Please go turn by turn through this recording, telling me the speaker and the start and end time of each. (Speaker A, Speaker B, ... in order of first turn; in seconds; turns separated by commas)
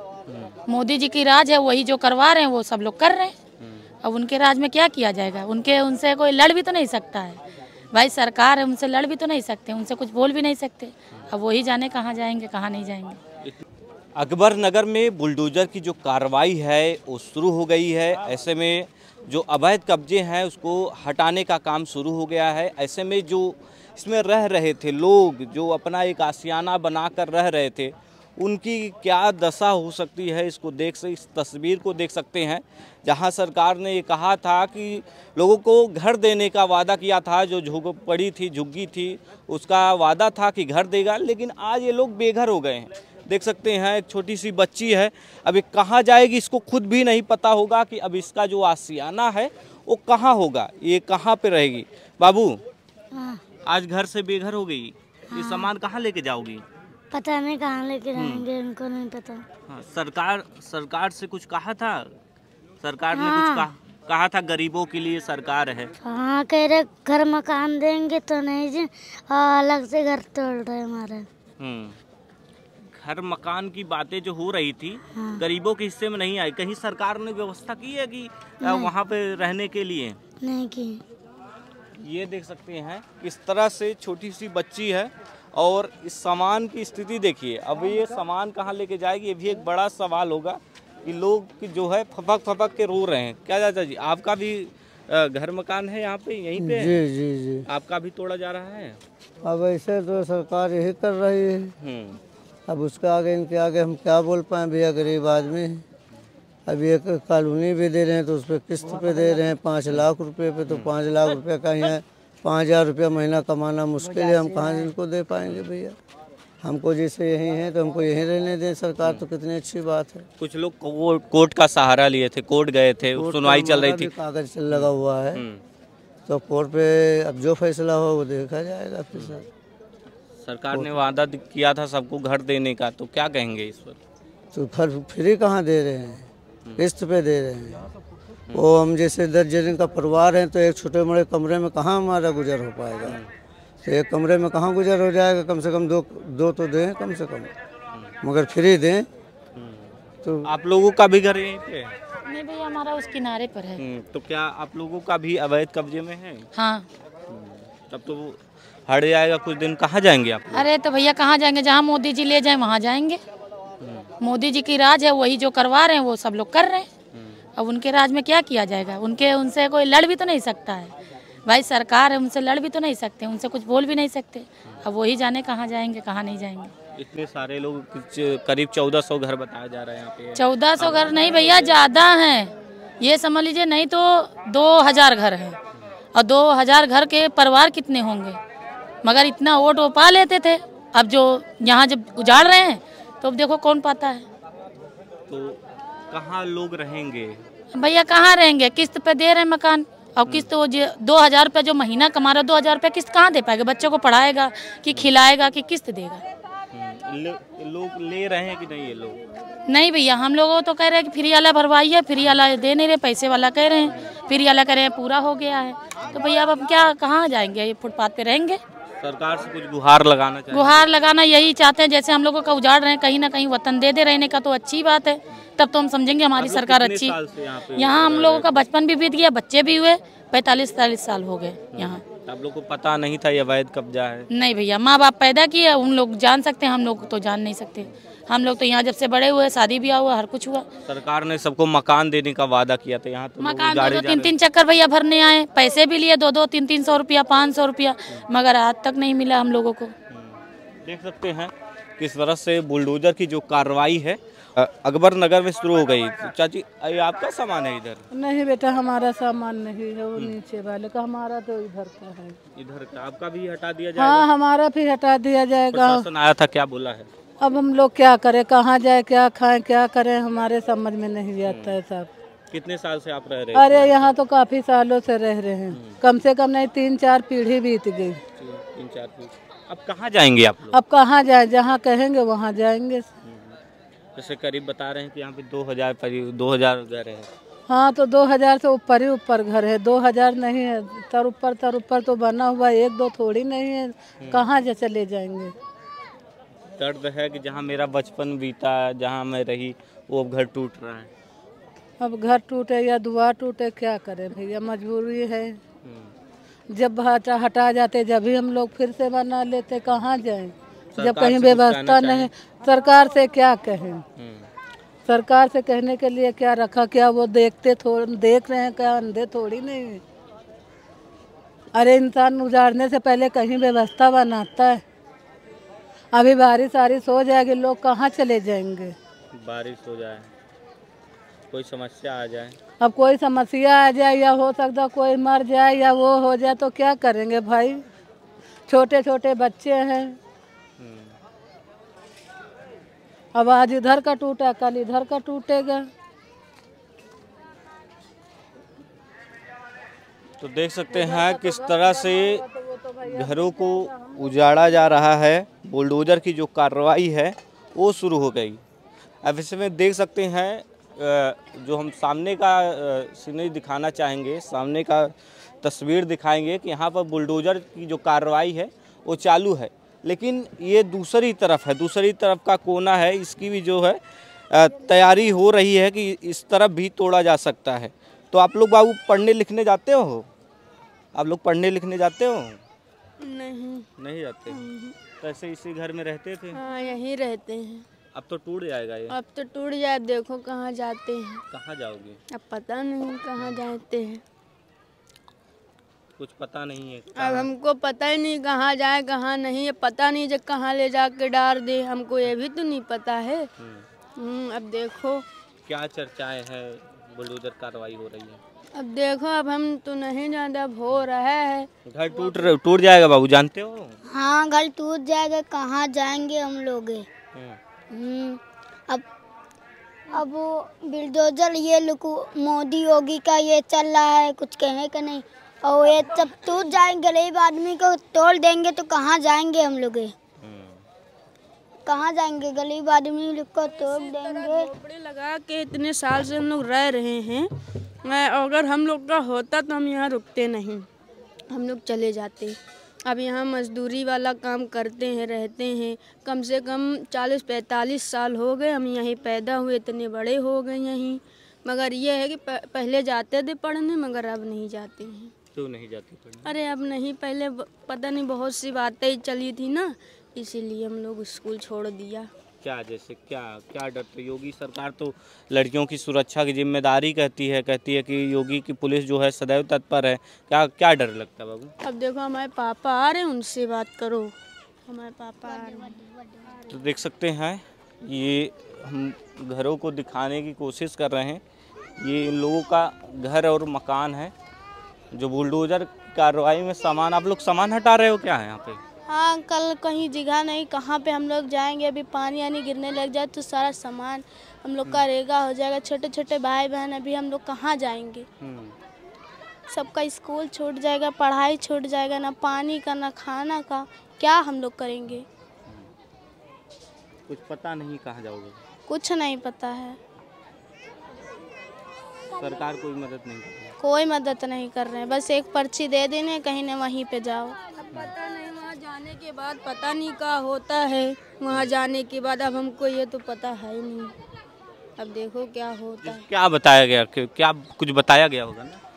Speaker A: 0.3-0.6, Speaker B: 0.7-3.3, Speaker A: 3.6-3.9, Speaker B: 4.0-7.4, Speaker B: 7.9-13.2, Speaker A: 14.2-52.6, Speaker C: 53.1-53.4, Speaker A: 53.6-56.6, Speaker C: 55.3-55.7, Speaker C: 57.1-59.4, Speaker A: 58.1-58.5, Speaker A: 59.7-62.1, Speaker A: 62.8-65.9, Speaker C: 63.1-63.6, Speaker C: 66.0-71.2, Speaker A: 71.6-72.0, Speaker A: 73.0-80.2, Speaker C: 80.4-81.0, Speaker A: 82.0-97.0, Speaker D: 96.6-97.7, Speaker A: 97.7-99.0, Speaker D: 99.4-101.7, Speaker A: 101.8-102.2, Speaker D: 102.7-105.8, Speaker D: 106.7-115.9, Speaker A: 110.7-110.9, Speaker D: 116.6-120.2, Speaker A: 119.0-119.2, Speaker A: 120.4-124.1, Speaker D: 123.1-125.4, Speaker A: 124.7-125.6, Speaker D: 126.2-129.4, Speaker A: 129.1-129.4, Speaker A: 130.4-134.0, Speaker D: 134.5-137.9, Speaker D: 138.5-143.2, Speaker A: 143.0-143.3, Speaker D: 143.8-147.5, Speaker D: 148.2-149.1, Speaker A: 149.5-151.9, Speaker D: 150.2-150.5, Speaker B: 152.2-153.8, Speaker A: 153.8-156.5, Speaker B: 156.5-156.9, Speaker A: 157.3-160.7, Speaker B: 160.5-163.2, Speaker A: 163.8-164.1, Speaker B: 164.2-166.9, Speaker A: 167.1-167.4, Speaker B: 167.6-170.9, Speaker B: 171.4-176.7, Speaker A: 177.0-181.9, Speaker B: 180.3-185.6, Speaker B: 186.1-188.4, Speaker B: 189.0-194.2, Speaker A: 195.3-197.4, Speaker B: 197.7-206.2, Speaker A: 206.7-209.2, Speaker B: 209.7-218.6, Speaker A: 219.0-220.9, Speaker B: 220.5-227.2, Speaker A: 226.4-228.7, Speaker B: 227.7-232.0, Speaker A: 231.7-234.3, Speaker B: 234.3-240.7, Speaker A: 240.8-244.3, Speaker B: 243.4-249.9, Speaker A: 250.1-258.0, Speaker E: 258.1-262.3, Speaker A: 262.5-264.3, Speaker E: 264.0-266.0, Speaker A: 265.7-267.1, Speaker E: 267.4-272.1, Speaker A: 271.4-271.8, Speaker A: 272.5-274.1, Speaker E: 273.5-278.2, Speaker A: 275.7-276.0, Speaker A: 278.4-280.8, Speaker E: 280.7-283.1, Speaker A: 283.2-283.6, Speaker A: 284.1-287.3, Speaker E: 287.7-295.5, Speaker A: 294.2-294.4, Speaker A: 296.8-301.1, Speaker E: 302.0-305.6, Speaker A: 305.8-306.1, Speaker E: 306.7-314.0, Speaker A: 310.9-312.3, Speaker A: 314.2-314.5, Speaker E: 315.1-320.0, Speaker E: 321.7-324.8, Speaker E: 326.1-328.9, Speaker A: 329.3-330.3, Speaker A: 331.5-332.6, Speaker E: 332.8-337.8, Speaker E: 338.7-340.2, Speaker A: 340.8-341.1, Speaker E: 343.3-345.9, Speaker A: 350.4-352.4, Speaker E: 350.9-354.3, Speaker A: 353.0-358.6, Speaker A: 359.2-380.3, Speaker A: 381.1-382.6, Speaker F: 383.2-383.9, Speaker A: 384.0-384.6, Speaker F: 384.5-385.0, Speaker A: 385.2-386.6, Speaker F: 386.5-387.9, Speaker A: 388.1-389.2, Speaker F: 389.1-391.4, Speaker A: 391.5-392.2, Speaker F: 392.3-394.2, Speaker A: 396.2-397.5, Speaker F: 397.1-403.5, Speaker F: 404.2-405.2, Speaker A: 405.6-408.4, Speaker F: 408.7-412.5, Speaker A: 411.9-414.0, Speaker C: 414.1-417.0, Speaker A: 417.3-417.6, Speaker C: 417.9-418.4, Speaker C: 420.1-430.1, Speaker F: 426.0-426.8, Speaker A: 430.4-430.8, Speaker C: 431.9-434.7, Speaker F: 433.6-437.5, Speaker F: 438.0-440.9, Speaker F: 441.5-455.3, Speaker A: 455.5-456.5, Speaker F: 456.4-462.3, Speaker A: 462.6-471.7, Speaker F: 471.8-474.3, Speaker F: 474.9-476.8, Speaker C: 475.5-476.0, Speaker A: 476.7-481.4, Speaker A: 482.0-484.3, Speaker A: 485.1-488.8, Speaker G: 489.1-498.2, Speaker A: 498.4-498.8, Speaker G: 499.7-505.2, Speaker A: 507.3-508.6, Speaker G: 508.9-510.0, Speaker A: 512.3-513.7, Speaker G: 513.8-517.5, Speaker F: 517.8-524.1, Speaker F: 525.0-526.2, Speaker A: 526.0-528.8